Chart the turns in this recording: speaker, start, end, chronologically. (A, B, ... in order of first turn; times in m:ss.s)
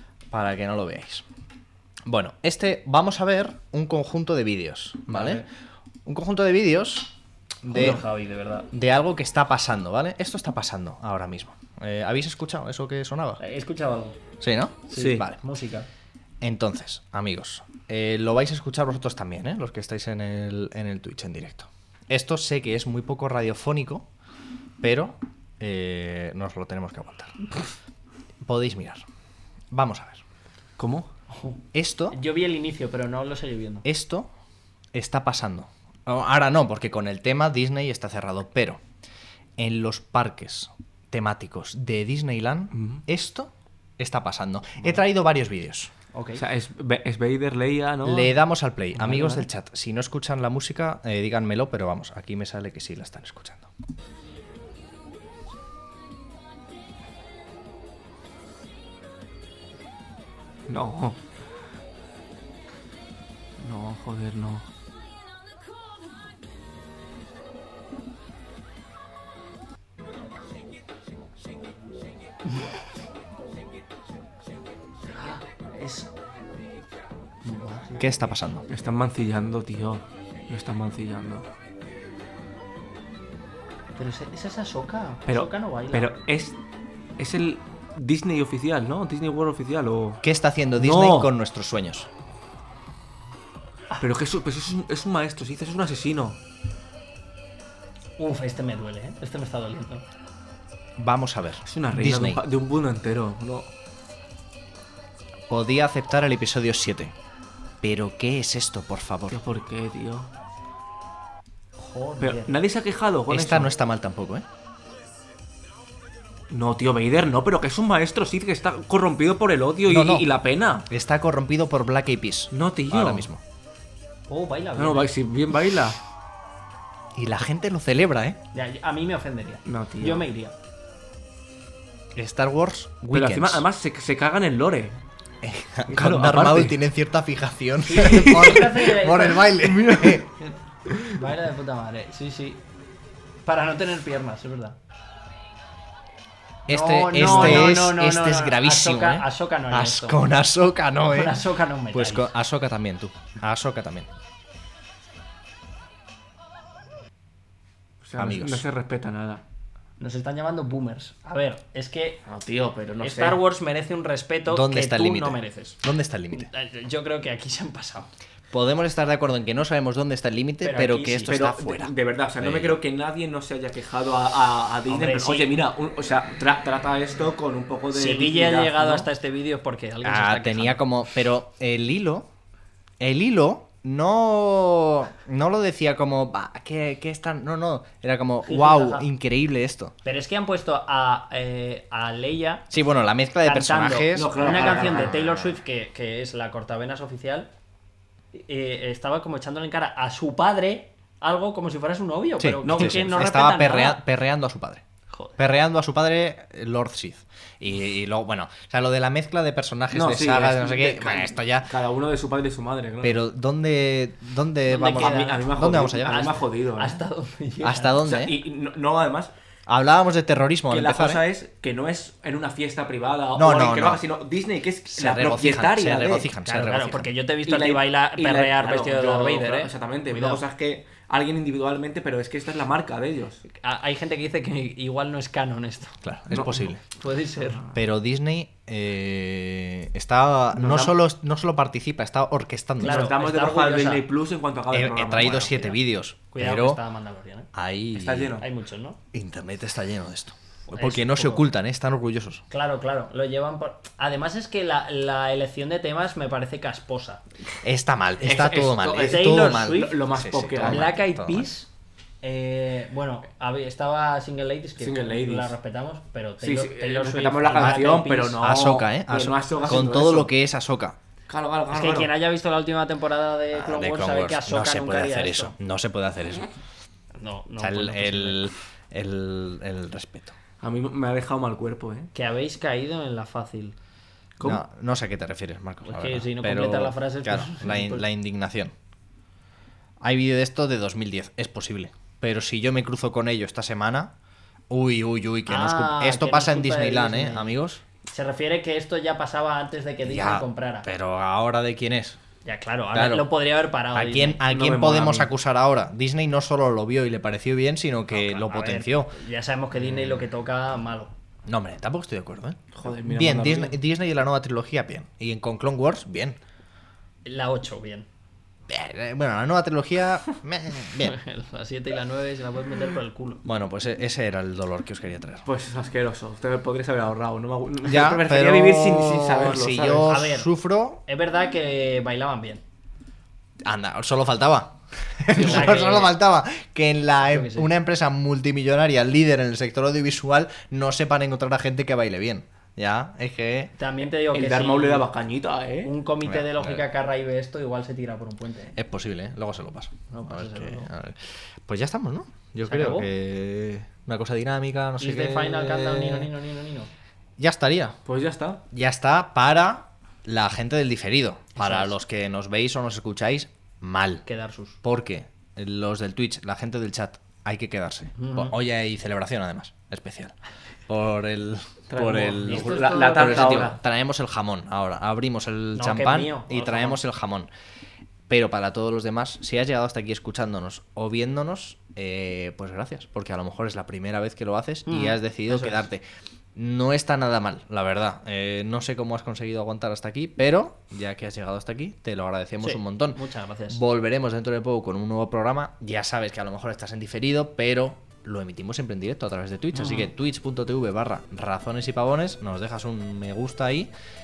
0:00.3-0:01.2 A
0:02.0-0:05.4 A
0:05.1-0:05.4 B
0:06.0-0:07.1 A
0:07.6-0:08.7 B
0:07.7-0:08.0 A
0:08.7-0:13.4 A
0:13.4-0:14.2 B
0:14.4-0:15.4 A
0:14.9-0:15.9 B
0:16.4-0:24.1 A
0:24.8-0:27.4 A
0:28.4-0:29.0 A
0:29.7-0:30.2 A
0:30.8-0:31.1 C
0:31.3-0:31.6 B
0:31.7-0:32.2 A
0:32.1-0:33.8 B
0:33.8-0:34.3 A
0:34.9-0:38.8 A
0:39.6-0:45.9 A
0:42.7-0:43.0 C
0:46.1-0:46.4 B
0:46.4-0:48.3 C
0:48.0-0:53.7 A
0:48.9-0:49.5 C
1:00.7-1:01.2 C
1:03.6-1:04.7 C
1:15.1-1:16.1 B
1:17.4-1:18.0 B
1:18.0-1:18.6 A
1:18.7-1:21.5 C
1:24.0-1:26.1 B
1:25.3-1:26.6 C
1:27.2-1:30.2 C
1:30.2-1:32.1 A
1:30.8-1:31.3 C
1:34.0-1:36.4 C
1:38.2-1:40.0 B
1:41.0-1:42.4 A
1:41.6-1:43.7 C
1:45.5-1:47.1 A
1:47.8-1:49.4 A
1:49.3-1:50.3 C
1:51.8-1:52.6 B
1:52.2-1:53.7 C
1:53.3-1:54.4 A
1:56.5-2:00.9 C
1:59.9-2:00.3 A
2:00.9-2:03.4 A
2:02.5-2:03.3 C
2:04.3-2:05.1 B
2:04.8-2:06.0 C
2:07.1-2:08.4 A
2:08.5-2:10.5 B
2:09.6-2:10.3 C
2:12.2-2:13.6 A
2:13.1-2:15.0 C
2:15.4-2:20.3 A
2:15.9-2:16.8 C
2:17.8-2:19.5 B
2:18.0-2:18.8 C
2:19.6-2:20.2 C
2:21.1-2:22.6 B
2:23.4-2:24.8 B
2:26.7-2:34.1 A
2:26.7-2:30.2 B
2:27.2-2:27.7 C
2:31.1-2:32.3 B
2:38.0-2:39.4 C
2:38.2-2:38.6 A
2:40.0-2:42.2 B
2:42.2-2:43.4 C
2:43.0-2:45.8 B
2:44.5-2:46.5 A
2:46.3-2:48.1 B
2:48.5-2:52.8 A
2:50.6-2:51.4 B
2:51.3-2:59.1 C
2:54.9-2:55.5 B
2:57.9-3:00.8 B
3:00.0-3:02.3 A
3:03.0-3:09.9 A
3:08.4-3:09.1 B
3:10.0-3:12.7 B
3:12.7-3:15.1 A
3:13.4-3:17.5 B
3:14.1-3:15.3 C
3:18.3-3:24.0 B
3:22.4-3:24.8 A
3:22.6-3:23.4 C
3:25.1-3:25.4 B
3:25.4-3:31.7 A
3:29.9-3:33.2 C
3:33.0-3:36.3 A
3:34.7-3:38.0 B
3:34.8-3:37.0 C
3:37.6-3:38.4 A
3:38.0-3:39.3 C
3:39.7-3:41.2 A
3:40.7-3:46.3 C
3:43.4-3:44.0 A
3:44.9-3:47.1 A
3:46.4-3:50.4 B
3:47.4-3:53.4 C
3:53.5-3:56.0 B
3:56.0-3:56.8 A
3:56.3-3:56.8 C
3:56.9-3:57.7 B
3:57.7-4:03.1 A
4:00.6-4:00.9 C
4:02.8-4:04.0 B
4:02.8-4:05.6 C
4:04.7-4:06.8 A
4:05.3-4:05.8 B
4:06.3-4:07.5 B
4:07.5-4:08.4 A
4:07.9-4:08.4 C
4:08.4-4:09.0 B
4:09.1-4:12.4 A
4:10.7-4:11.4 B
4:12.5-4:17.2 B
4:17.6-4:21.5 A
4:18.2-4:20.9 C
4:19.0-4:20.0 B
4:20.6-4:21.7 B
4:22.2-4:28.4 B
4:24.8-4:25.6 C
4:26.4-4:30.3 C
4:27.6-4:31.0 A
4:31.3-4:32.1 C
4:31.7-4:35.5 B
4:33.5-4:36.5 A
4:37.2-4:38.5 B
4:37.6-4:40.3 A
4:40.6-4:42.1 C
4:42.1-4:43.8 B
4:44.4-4:48.7 A
4:45.8-4:48.0 B
4:50.0-4:54.1 A
4:54.7-4:57.8 A
4:55.5-4:57.5 B
4:58.1-5:00.9 B
5:00.0-5:02.2 A
5:02.4-5:04.4 B
5:02.9-5:03.3 A
5:03.9-5:09.1 A
5:04.5-5:05.3 C
5:08.1-5:11.1 B
5:09.7-5:10.2 A
5:11.4-5:16.4 A
5:12.7-5:13.8 C
5:17.2-5:18.0 B
5:18.7-5:21.2 A
5:21.0-5:23.4 B
5:23.4-5:25.4 A
5:25.4-5:30.1 C
5:27.8-5:31.0 A
5:30.0-5:30.5 B
5:31.0-5:32.6 B
5:33.6-5:43.7 A
5:35.3-5:35.9 C
5:35.3-5:36.1 B
5:37.3-5:37.7 B
5:43.8-5:45.1 B
5:44.3-5:45.9 C
5:45.8-5:48.8 B
5:46.2-5:46.8 A
5:48.7-5:56.2 A
5:50.1-5:50.9 B
5:52.6-5:53.1 B
5:55.0-5:56.9 B
5:57.4-5:58.0 A
5:58.0-5:58.6 C
5:58.7-6:04.2 A
6:01.6-6:01.9 B
6:04.2-6:04.8 B
6:04.8-6:10.3 A
6:08.2-6:08.5 B
6:10.9-6:17.5 A
6:11.9-6:13.7 C
6:12.4-6:13.8 B
6:15.8-6:17.0 B
6:18.3-6:26.0 A
6:24.9-6:25.8 B
6:26.5-6:43.9 A
6:32.6-6:33.8 B
6:39.7-6:40.1 B